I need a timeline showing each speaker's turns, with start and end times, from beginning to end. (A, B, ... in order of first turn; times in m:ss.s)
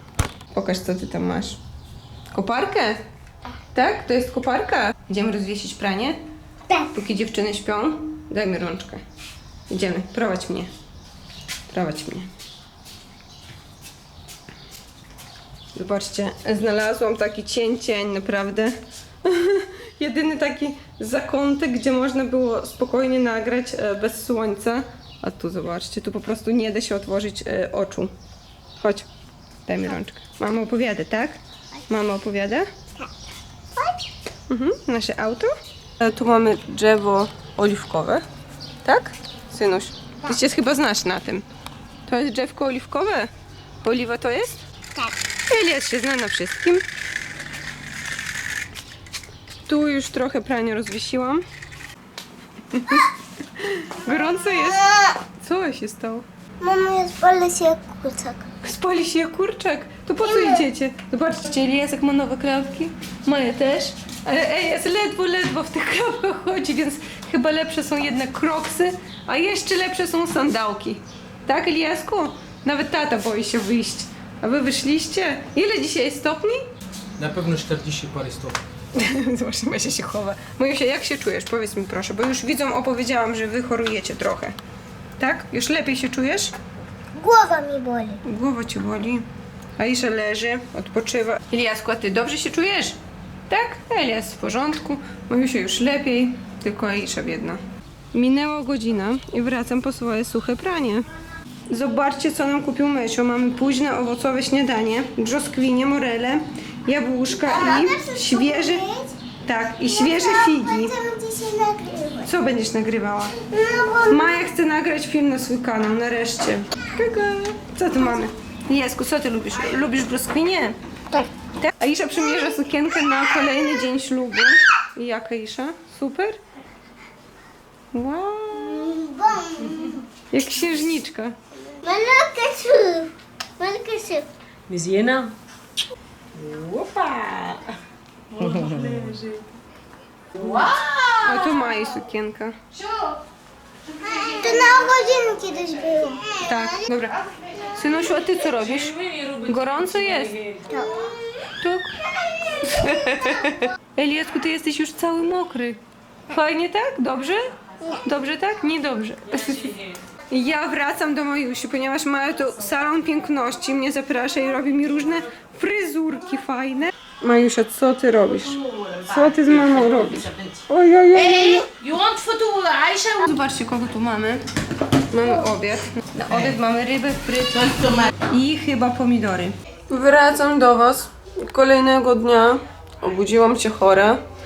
0:00.5-0:01.6 A
0:02.3-0:03.0 A
0:03.7-0:06.2 A
0:06.7-0:09.0 A
0:09.7-0:10.7 A
0:11.7-0:12.3 A
0:15.7-0:28.1 A
0:28.8-0:29.1 A
0:29.6-0:32.7 A
0:34.5-0:38.2 A
0:38.8-0:41.4 A
0:42.1-0:43.3 A
0:43.8-0:44.6 A
0:45.5-0:46.8 A
0:49.7-0:51.4 A
0:52.7-0:54.9 A
0:55.4-0:56.2 A
0:56.6-0:58.4 B
0:58.6-1:16.6 A
1:00.3-1:00.6 B
1:17.2-1:18.6 C
1:18.9-1:24.5 A
1:25.2-1:26.5 A
1:27.2-1:28.2 B
1:28.2-1:29.2 A
1:29.8-1:33.0 A
1:33.5-1:37.6 A
1:38.1-1:41.1 A
1:41.7-1:48.9 A
1:47.4-1:49.2 B
1:49.4-1:50.9 A
1:50.0-1:52.3 B
1:52.2-1:53.5 A
1:53.5-1:54.3 B
1:54.0-2:00.8 A
2:01.5-2:06.4 A
2:07.9-2:09.0 A
2:08.9-2:09.9 B
2:10.3-2:11.4 A
2:11.8-2:14.3 B
2:14.7-2:15.4 C
2:16.5-2:17.0 C
2:16.6-2:17.5 A
2:18.4-2:19.1 A
2:18.5-2:18.9 C
2:20.4-2:20.8 D
2:21.2-2:22.6 A
2:24.2-2:26.4 B
2:26.4-2:27.2 A
2:27.7-2:30.5 A
2:30.7-2:31.0 B
2:31.6-2:31.9 A
2:32.6-2:37.5 A
2:38.0-2:51.7 A
2:51.5-2:53.2 D
2:53.1-2:54.4 A
2:55.1-3:04.2 A